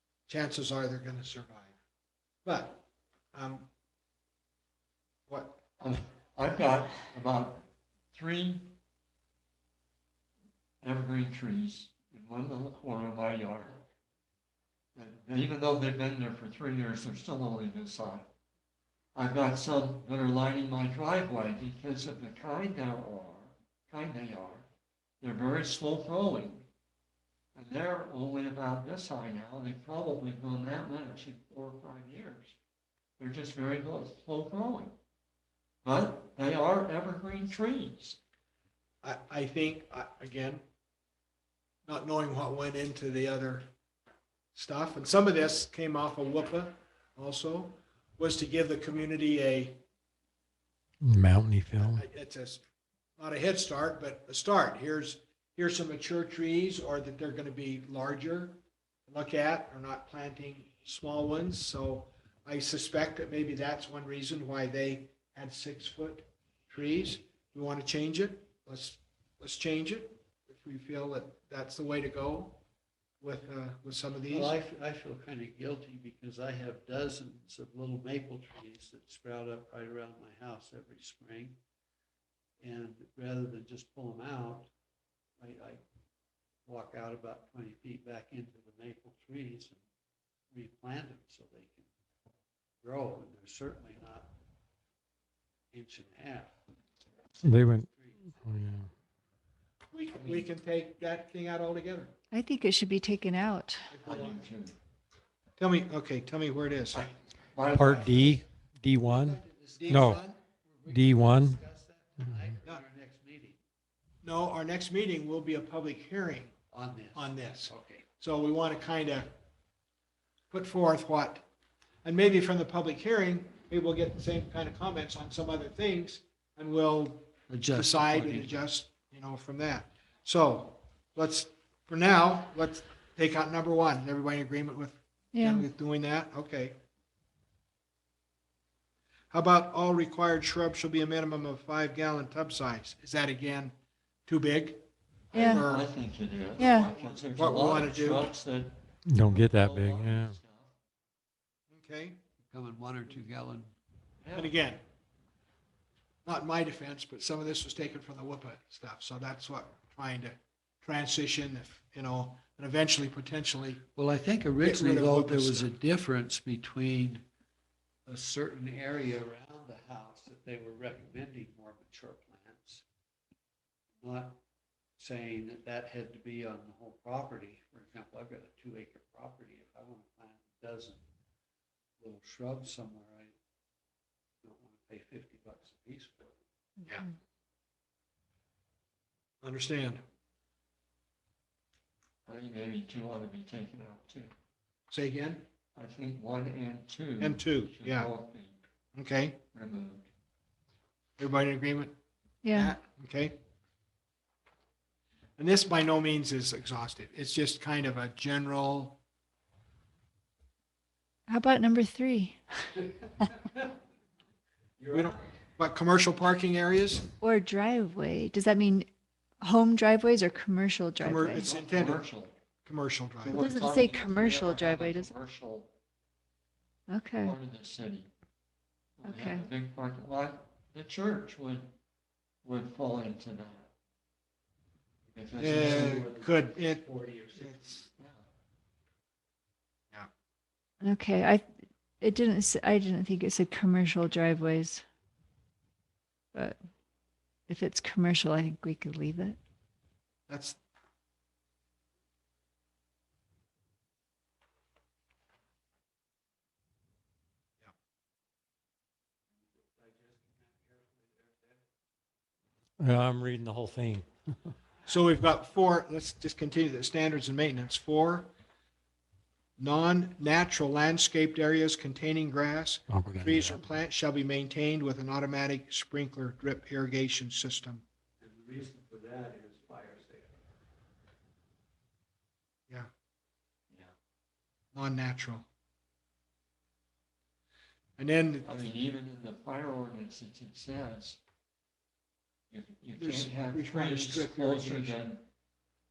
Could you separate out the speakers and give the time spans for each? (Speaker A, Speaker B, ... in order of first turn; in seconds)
Speaker A: 0.3-1.7, 2.5-3.7, 5.3-5.6, 39.0-40.6, 41.9-43.7, 44.5-49.8, 51.8-52.6, 53.2-72.6, 73.2-74.5, 99.9-102.1, 103.9-104.4, 105.6-107.2, 109.8-110.4, 114.2-116.5, 117.2-119.3, 120.5-121.5, 122.0-136.8, 139.3-143.7, 144.3-145.8, 147.3-148.3, 151.7-152.2, 154.3-154.8, 156.3-163.8, 164.6-165.7, 189.4-190.0, 194.9-195.5, 197.2-198.1, 198.9-199.4, 201.2-201.9, 202.5-203.4, 205.4-209.0, 214.9-217.1, 221.0-222.0, 222.6-223.4, 235.4-236.8, 237.4-237.8, 250.3-250.6, 264.9-268.3, 269.6-277.8, 284.8-285.5, 288.0-288.5, 293.0-295.1
Speaker B: 5.8-8.8, 10.8-13.8, 15.0-18.3, 19.1-24.7, 25.2-26.7, 27.6-32.6, 33.2-35.0, 35.8-38.2, 100.2-100.5, 104.1-104.8, 107.5-108.4, 145.3-150.7, 154.2-154.6, 192.3-194.3, 195.8-198.6, 199.5-200.1, 221.3-222.3, 223.2-225.7, 227.2-228.1, 229.0-231.7, 232.4-233.7, 235.1-236.1, 237.9-238.2, 288.4-291.2, 292.5-295.2
Speaker C: 51.0-52.0, 97.4-97.9, 98.4-98.9, 107.7-110.2, 110.9-111.6, 149.1-150.4, 262.8-264.1, 272.9-273.6
Speaker D: 74.3-81.6, 82.6-84.7, 85.4-85.8, 86.7-89.8, 90.5-91.9, 92.8-94.3, 95.7-96.5, 97.4-98.6, 108.0-108.4, 109.0-113.6, 116.7-118.1, 127.5-128.6, 152.4-153.7, 164.0-167.3, 168.1-172.8, 174.0-174.4, 175.0-181.0, 182.0-183.3, 184.4-186.4, 235.4-237.8, 259.4-261.6, 278.2-280.3
Speaker E: 102.3-103.9, 135.3-135.6, 145.3-145.7, 146.6-146.9, 202.4-202.8, 211.3-212.4, 217.2-218.9, 219.4-221.5, 223.3-225.1, 226.9-227.3, 229.0-229.5, 240.8-241.4, 242.0-244.8, 247.5-249.4